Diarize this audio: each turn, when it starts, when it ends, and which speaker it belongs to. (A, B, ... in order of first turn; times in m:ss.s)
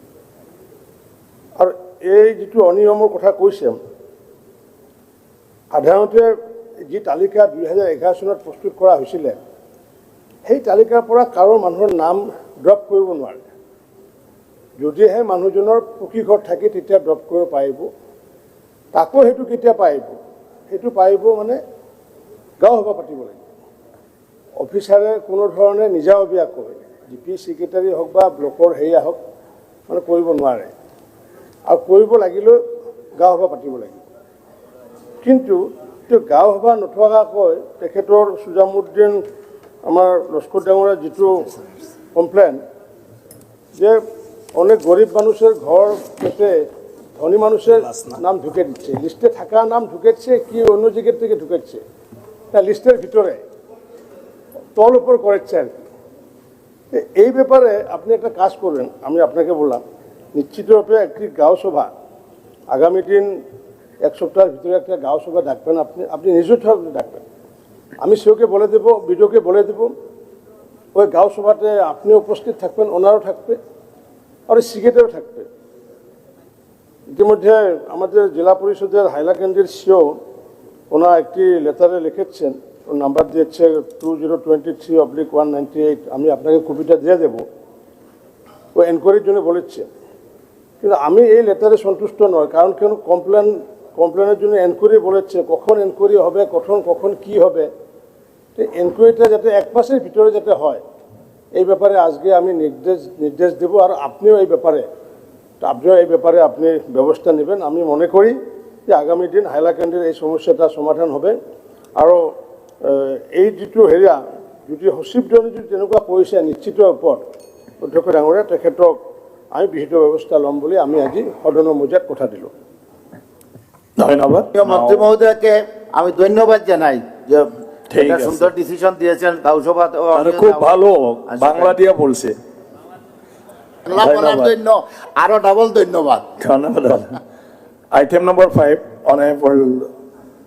0:01.6-0:03.8 A
0:05.7-0:06.3 A
0:06.8-0:09.4 A
0:10.4-0:13.4 A
0:14.8-0:17.9 A
0:18.9-0:20.1 A
0:20.7-0:21.6 A
0:22.6-0:23.4 A
0:24.6-0:29.2 A
0:29.9-0:30.7 A
0:31.7-0:32.6 A
0:33.2-0:34.0 A
0:35.2-0:39.2 A
0:39.8-0:41.4 A
0:42.1-0:42.6 A
0:44.5-0:46.6 A
0:47.2-0:51.8 A
0:52.5-0:53.4 A
0:54.7-0:55.7 A
0:56.9-0:59.8 A
1:00.3-1:01.9 A
1:02.7-1:03.3 A
1:04.0-1:07.2 A
1:08.0-1:09.9 A
1:10.9-1:13.6 A
1:14.5-1:15.4 A
1:17.1-1:20.1 A
1:20.9-1:27.4 A
1:28.7-1:29.9 A
1:30.8-1:37.7 A
1:38.6-1:40.8 A
1:41.5-1:44.8 A
1:45.6-1:48.4 A
1:48.9-1:51.4 A
1:52.0-1:52.2 A
1:52.8-1:57.2 A
1:57.8-1:59.0 A
1:59.5-2:02.5 A
2:04.0-2:05.1 B
2:04.5-2:10.8 C
2:07.9-2:08.4 B
2:10.1-2:12.3 B
2:11.3-2:11.8 C
2:13.8-2:16.2 C
2:13.9-2:14.5 B
2:16.4-2:17.2 B
2:17.9-2:19.9 B